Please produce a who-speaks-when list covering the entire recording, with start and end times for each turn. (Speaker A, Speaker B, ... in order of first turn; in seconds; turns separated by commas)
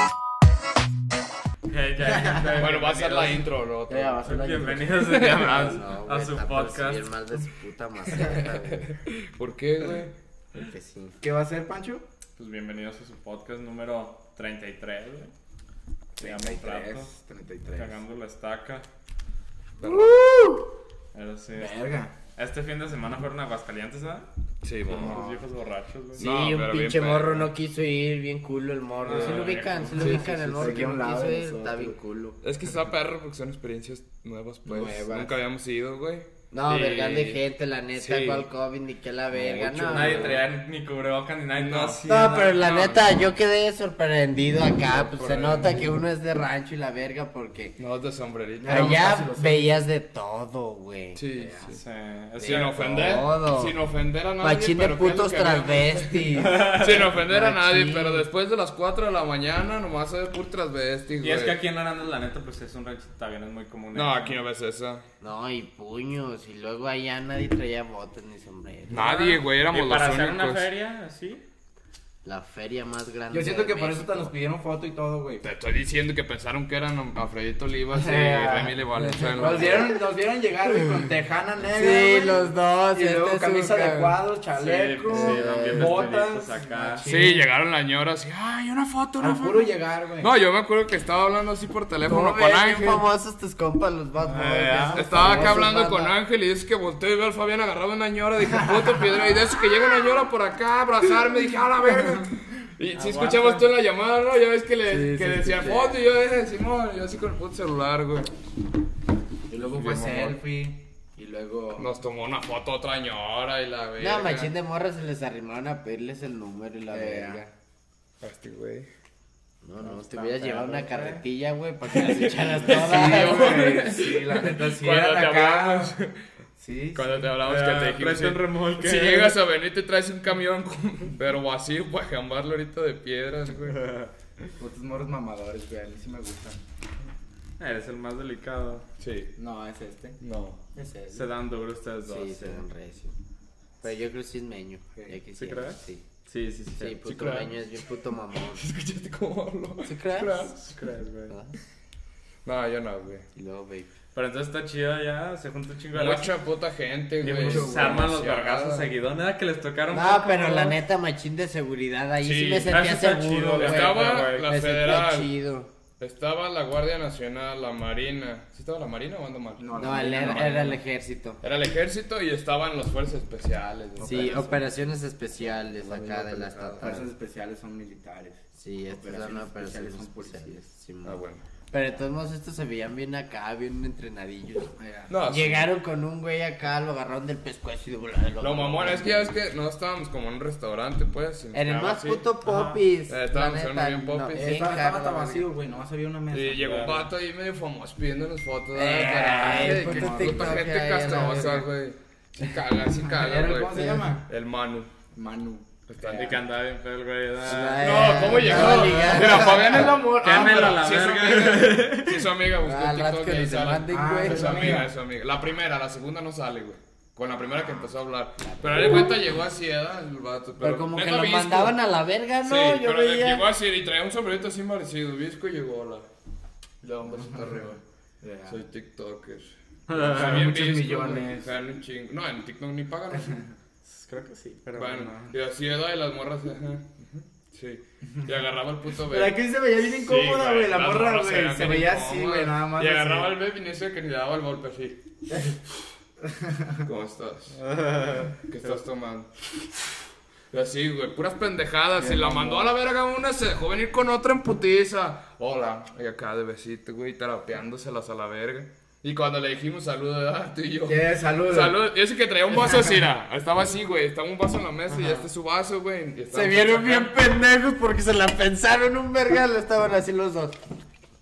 Speaker A: 1.6-3.5, Speaker B: 2.5-4.2, Speaker C: 3.9-8.9, Speaker A: 4.2-7.1, Speaker B: 5.1-5.5, Speaker B: 9.2-10.1, Speaker C: 10.5-11.2, Speaker D: 11.2-12.0, Speaker A: 12.4-15.3, Speaker A: 16.2-17.1, Speaker D: 16.2-18.0, Speaker A: 17.7-18.9, Speaker B: 19.8-20.3, Speaker C: 19.8-20.7, Speaker A: 21.1-21.8, Speaker D: 21.5-22.1, Speaker A: 22.3-24.3, Speaker B: 24.6-25.4, Speaker A: 24.9-26.2, Speaker C: 26.1-32.4, Speaker B: 26.2-27.5, Speaker A: 29.0-30.9, Speaker D: 29.1-29.4, Speaker B: 30.0-30.3, Speaker D: 30.6-32.0, Speaker B: 32.4-37.4, Speaker D: 34.6-35.3, Speaker C: 36.5-40.5, Speaker B: 37.9-38.5, Speaker B: 39.3-40.4, Speaker A: 39.9-43.3, Speaker B: 41.5-42.3, Speaker C: 42.0-47.8, Speaker B: 44.8-46.0, Speaker B: 47.8-49.1, Speaker D: 48.6-49.8, Speaker C: 48.6-51.8, Speaker B: 51.1-51.8, Speaker A: 51.7-53.2, Speaker B: 52.4-61.6, Speaker C: 52.4-53.8, Speaker C: 54.4-58.3, Speaker A: 56.4-57.0, Speaker A: 61.2-64.4, Speaker B: 63.9-65.0, Speaker C: 65.2-69.2, Speaker B: 68.9-70.7, Speaker A: 69.0-71.4, Speaker C: 72.2-74.3, Speaker D: 73.3-75.4, Speaker B: 75.4-79.9, Speaker D: 77.9-78.8, Speaker C: 79.0-80.0, Speaker D: 79.3-87.5, Speaker C: 81.7-84.2, Speaker A: 84.5-87.1, Speaker C: 85.0-86.1, Speaker B: 87.0-89.7, Speaker D: 89.2-90.3, Speaker B: 90.2-93.0, Speaker C: 92.0-96.1, Speaker A: 94.3-95.4, Speaker B: 94.9-108.3, Speaker A: 102.9-103.7, Speaker D: 104.9-106.0, Speaker C: 105.0-105.5, Speaker D: 109.5-111.9, Speaker B: 109.5-110.4, Speaker B: 111.8-114.5, Speaker C: 114.0-117.5, Speaker D: 116.9-117.4, Speaker B: 118.2-118.9, Speaker C: 119.6-123.6, Speaker D: 119.8-121.2, Speaker B: 122.0-126.2, Speaker D: 122.7-125.9, Speaker D: 126.6-127.3, Speaker B: 126.9-133.8, Speaker A: 127.4-129.4, Speaker A: 133.7-134.1, Speaker D: 134.6-136.6, Speaker A: 137.6-138.8, Speaker B: 139.0-139.3, Speaker D: 139.4-140.2, Speaker B: 140.2-140.6, Speaker D: 140.7-141.2, Speaker A: 141.1-142.6, Speaker C: 142.1-143.1, Speaker C: 143.8-146.0, Speaker A: 145.3-147.0, Speaker C: 146.8-148.6, Speaker B: 147.0-147.5, Speaker B: 148.5-150.6, Speaker C: 149.8-150.5, Speaker A: 150.6-151.3, Speaker C: 151.3-151.6, Speaker B: 152.4-153.2, Speaker C: 153.3-153.9, Speaker A: 154.1-156.3, Speaker B: 155.9-158.8, Speaker A: 157.2-160.8, Speaker D: 157.4-158.1, Speaker C: 159.9-165.7, Speaker B: 162.2-162.7, Speaker A: 162.7-164.5, Speaker B: 163.6-165.3, Speaker B: 166.0-170.7, Speaker D: 169.6-170.8, Speaker C: 169.8-171.4, Speaker B: 171.4-174.4, Speaker D: 174.0-174.7, Speaker C: 174.0-177.1, Speaker B: 175.8-177.0, Speaker D: 176.8-180.6, Speaker C: 178.6-189.3, Speaker B: 181.0-181.4, Speaker D: 184.8-185.1, Speaker B: 185.1-185.7, Speaker B: 188.4-192.2, Speaker C: 191.5-195.5, Speaker A: 192.4-192.8, Speaker B: 193.1-194.5, Speaker D: 194.3-196.8, Speaker B: 196.3-204.9, Speaker A: 196.6-197.1, Speaker C: 198.7-201.7, Speaker D: 199.4-200.6, Speaker D: 203.0-204.2, Speaker D: 205.1-205.7, Speaker B: 205.9-206.4, Speaker A: 206.1-212.3, Speaker C: 207.4-210.0, Speaker B: 207.8-221.8, Speaker C: 212.6-214.8, Speaker D: 213.9-214.9, Speaker D: 217.4-217.9, Speaker C: 218.4-219.1, Speaker C: 220.6-223.5, Speaker B: 222.4-226.1, Speaker B: 226.8-227.8, Speaker D: 227.1-228.6, Speaker B: 228.5-233.4, Speaker A: 229.9-230.4, Speaker D: 230.1-231.5, Speaker D: 233.1-233.4, Speaker A: 233.8-235.1, Speaker B: 234.7-239.3, Speaker D: 239.1-243.3, Speaker B: 239.9-245.0, Speaker D: 246.2-246.8, Speaker B: 246.8-247.6, Speaker A: 247.5-248.8, Speaker B: 248.5-249.3, Speaker B: 250.5-267.1, Speaker D: 252.0-252.8, Speaker D: 260.9-261.8, Speaker C: 264.9-265.2, Speaker C: 266.3-270.6